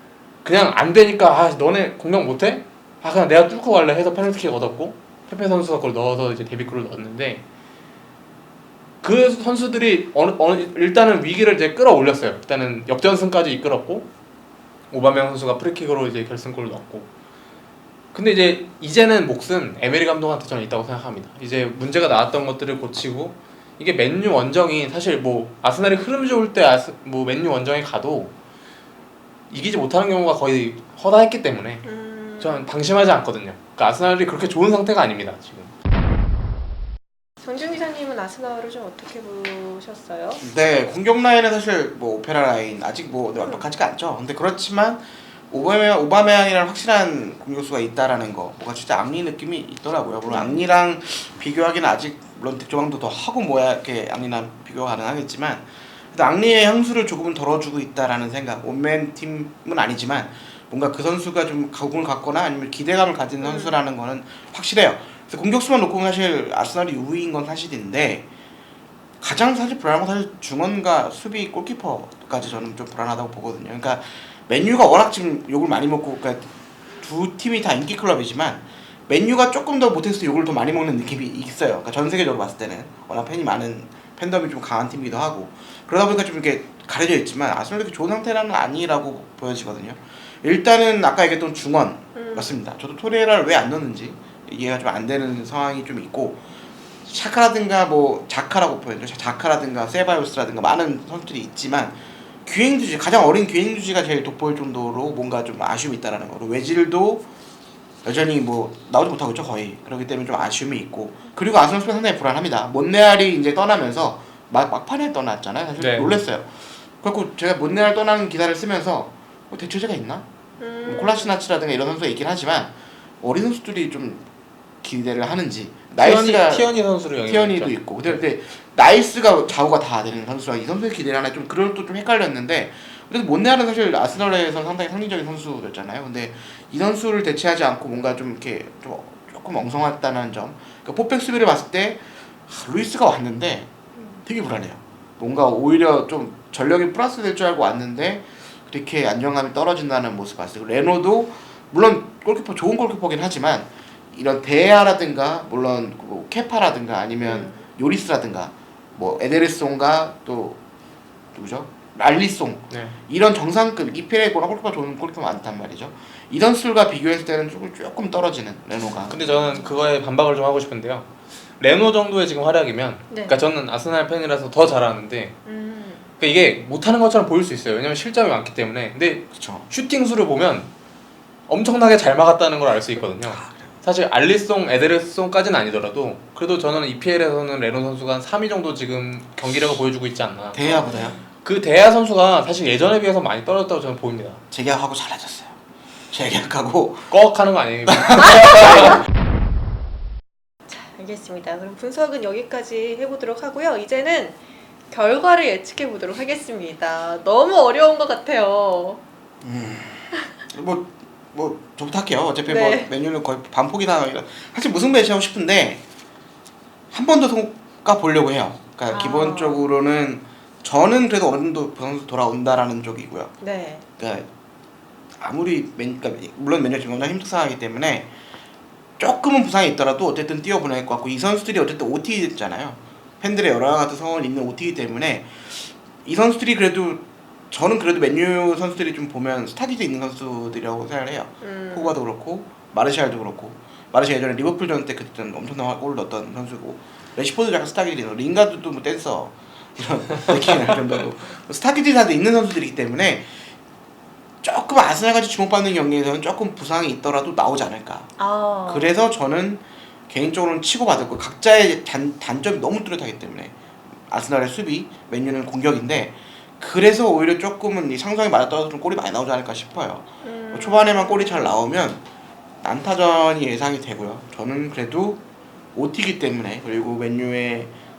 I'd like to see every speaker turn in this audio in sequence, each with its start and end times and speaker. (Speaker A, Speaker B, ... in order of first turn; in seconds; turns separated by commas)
Speaker A: 0.4-7.4, Speaker A: 9.0-14.1, Speaker A: 14.9-17.1, Speaker A: 18.1-28.3, Speaker A: 29.5-31.9, Speaker B: 31.8-32.6, Speaker A: 32.4-35.7, Speaker B: 37.4-40.4, Speaker C: 40.4-68.3, Speaker B: 50.3-50.6, Speaker B: 63.4-63.8, Speaker C: 69.2-96.4, Speaker B: 92.2-92.6, Speaker C: 97.0-107.2, Speaker C: 108.0-120.3, Speaker A: 115.8-116.2, Speaker B: 120.6-121.3, Speaker C: 120.9-124.2, Speaker C: 124.8-126.7, Speaker A: 126.0-128.2, Speaker C: 127.3-143.7, Speaker C: 144.2-160.6, Speaker B: 157.2-157.6, Speaker C: 161.3-169.2, Speaker A: 162.7-163.0, Speaker B: 169.0-169.7, Speaker A: 169.1-175.4, Speaker B: 173.1-173.4, Speaker B: 175.5-176.1, Speaker A: 176.2-180.7, Speaker C: 179.3-179.7, Speaker A: 181.5-190.6, Speaker C: 190.5-191.2, Speaker B: 190.6-191.2, Speaker A: 191.4-194.4, Speaker C: 194.5-195.6, Speaker C: 196.1-197.1, Speaker A: 197.1-199.0, Speaker C: 197.9-199.1, Speaker B: 198.3-198.9, Speaker B: 200.7-204.4, Speaker B: 204.9-209.0, Speaker C: 209.4-215.8, Speaker B: 212.5-212.9, Speaker C: 216.9-223.3, Speaker B: 218.9-219.6, Speaker B: 223.4-223.8, Speaker C: 224.0-224.3, Speaker C: 225.2-228.1, Speaker C: 229.0-253.4, Speaker B: 241.4-241.9, Speaker C: 254.4-258.1, Speaker B: 258.2-258.9, Speaker C: 258.7-263.6, Speaker C: 264.1-272.0, Speaker B: 270.2-271.6, Speaker C: 272.6-275.2, Speaker C: 275.8-277.7